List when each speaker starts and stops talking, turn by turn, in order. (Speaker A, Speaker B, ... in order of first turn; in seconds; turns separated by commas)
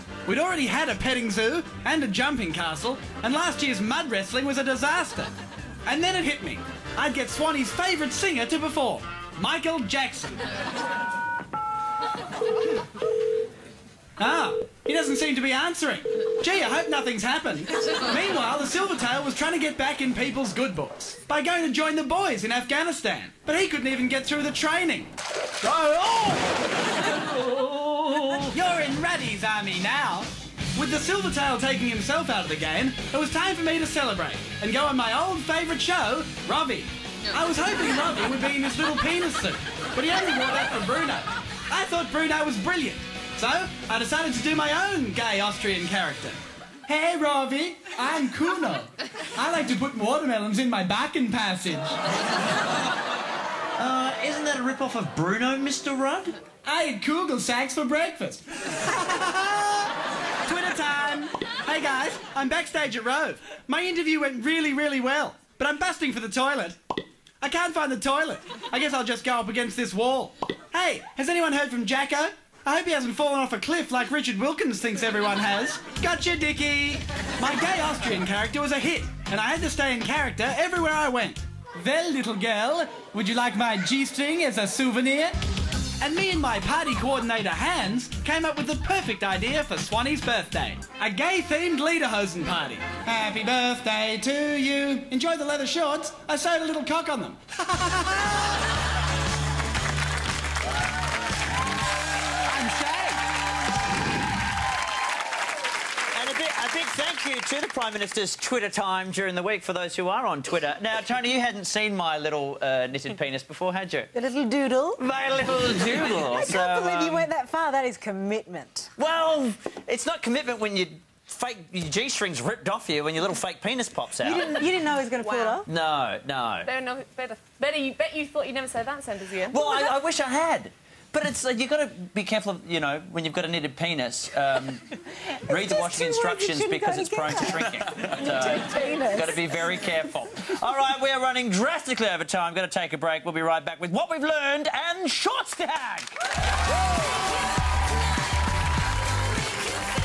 Speaker A: 0.2-5.3, Speaker A: 5.8-10.4, Speaker A: 14.2-25.1, Speaker B: 25.6-26.5, Speaker B: 27.2-28.5, Speaker A: 28.5-52.0, Speaker B: 53.8-56.4, Speaker A: 56.6-59.9, Speaker A: 60.5-66.8, Speaker A: 67.4-85.4, Speaker A: 86.0-98.4, Speaker A: 102.5-103.2, Speaker B: 106.1-114.1, Speaker C: 114.1-115.0, Speaker B: 115.0-117.3, Speaker C: 116.2-118.9, Speaker B: 119.0-124.7, Speaker C: 124.2-125.7, Speaker D: 125.2-125.6, Speaker B: 125.6-126.7, Speaker D: 126.7-129.9, Speaker B: 129.5-146.1, Speaker C: 135.5-139.4